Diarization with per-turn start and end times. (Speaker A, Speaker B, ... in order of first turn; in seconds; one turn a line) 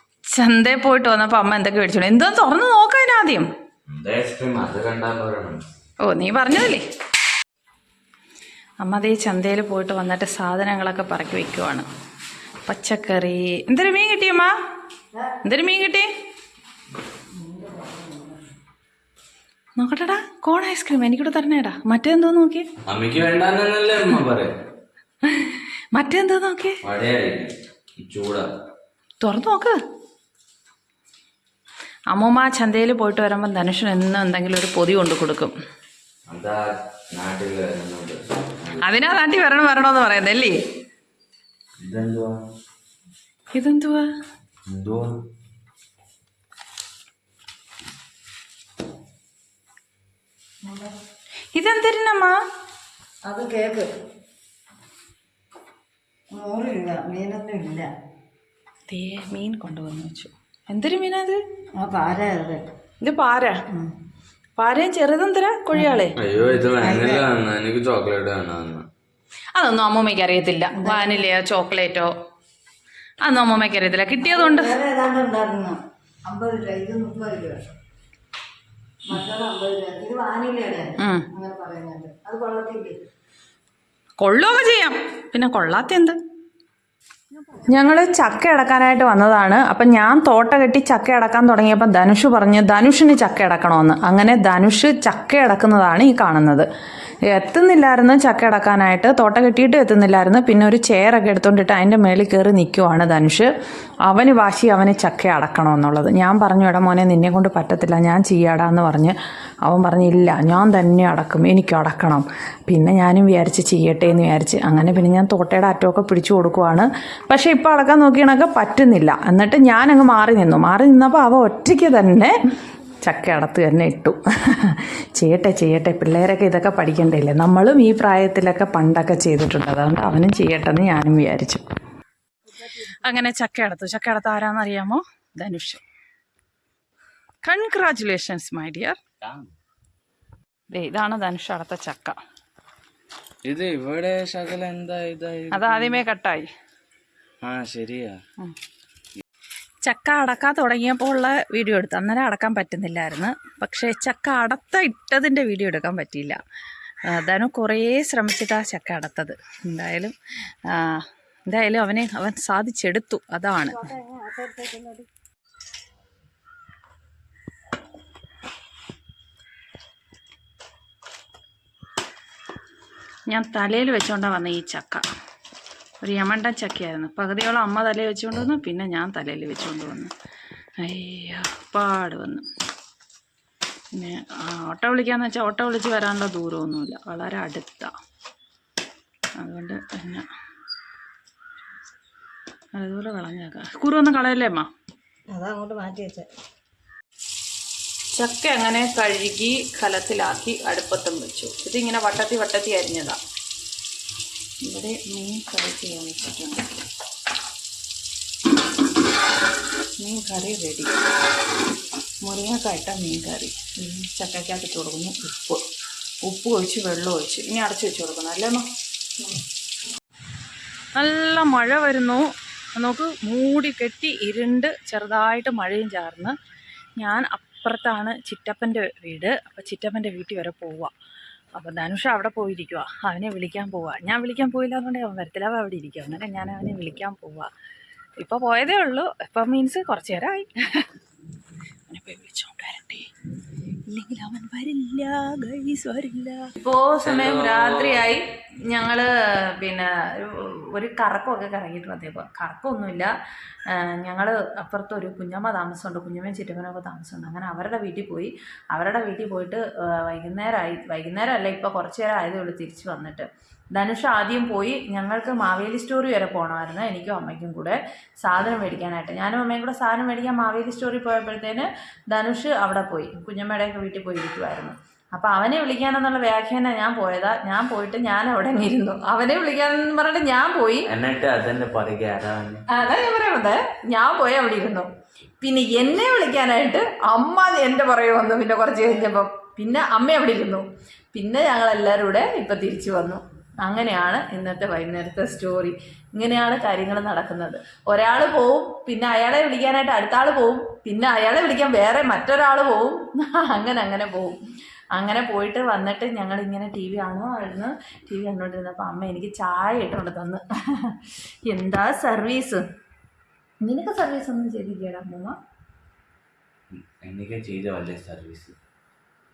Speaker A: 0.3-3.5
Speaker B: 3.9-5.7
Speaker A: 6.0-6.8
Speaker A: 8.8-11.9
Speaker A: 12.7-14.5
Speaker A: 15.4-16.1
Speaker C: 17.3-18.4
Speaker A: 19.8-22.7
Speaker B: 22.9-24.5
Speaker A: 25.2-26.8
Speaker B: 26.8-28.5
Speaker A: 29.2-29.8
Speaker A: 32.1-35.5
Speaker B: 36.3-38.9
Speaker A: 38.8-40.5
Speaker B: 41.8-42.4
Speaker A: 43.5-44.1
Speaker B: 44.7-45.1
Speaker C: 50.6-50.9
Speaker A: 51.5-52.4
Speaker C: 53.2-53.9
Speaker C: 56.3-57.9
Speaker A: 58.9-61.4
Speaker C: 61.7-62.7
Speaker A: 63.0-63.6
Speaker A: 64.6-66.2
Speaker C: 65.8-67.2
Speaker B: 66.2-68.8
Speaker A: 69.5-72.1
Speaker C: 70.7-71.2
Speaker A: 73.2-74.8
Speaker C: 74.2-77.6
Speaker C: 79.0-83.0
Speaker A: 81.0-81.3
Speaker A: 84.2-86.2
Speaker A: 87.6-96.7
Speaker A: 97.2-103.5
Speaker A: 104.1-122.3
Speaker A: 123.0-131.6
Speaker A: 132.8-135.8
Speaker A: 137.4-139.0
Speaker B: 139.2-139.5
Speaker A: 140.7-142.2
Speaker B: 143.4-146.0
Speaker A: 145.5-146.5
Speaker B: 147.4-148.2
Speaker A: 149.8-156.4
Speaker A: 157.1-160.1
Speaker A: 160.7-163.9
Speaker C: 163.8-165.1
Speaker A: 173.3-175.0
Speaker A: 176.0-180.1
Speaker A: 180.8-182.5
Speaker A: 183.9-187.9
Speaker A: 189.4-190.3
Speaker A: 192.7-194.7
Speaker C: 195.3-196.3
Speaker A: 198.1-203.2
Speaker A: 204.6-206.7
Speaker A: 210.0-210.9
Speaker A: 212.2-215.6
Speaker A: 216.2-218.7
Speaker A: 220.9-226.3
Speaker A: 227.0-230.9
Speaker A: 231.6-237.5
Speaker A: 238.2-240.9
Speaker A: 241.9-243.1
Speaker A: 243.9-253.1
Speaker B: 247.0-248.1
Speaker A: 253.7-280.9
Speaker B: 280.9-282.6
Speaker A: 282.7-284.9
Speaker A: 285.4-304.4
Speaker A: 304.9-312.6
Speaker A: 313.6-315.4
Speaker B: 316.7-318.6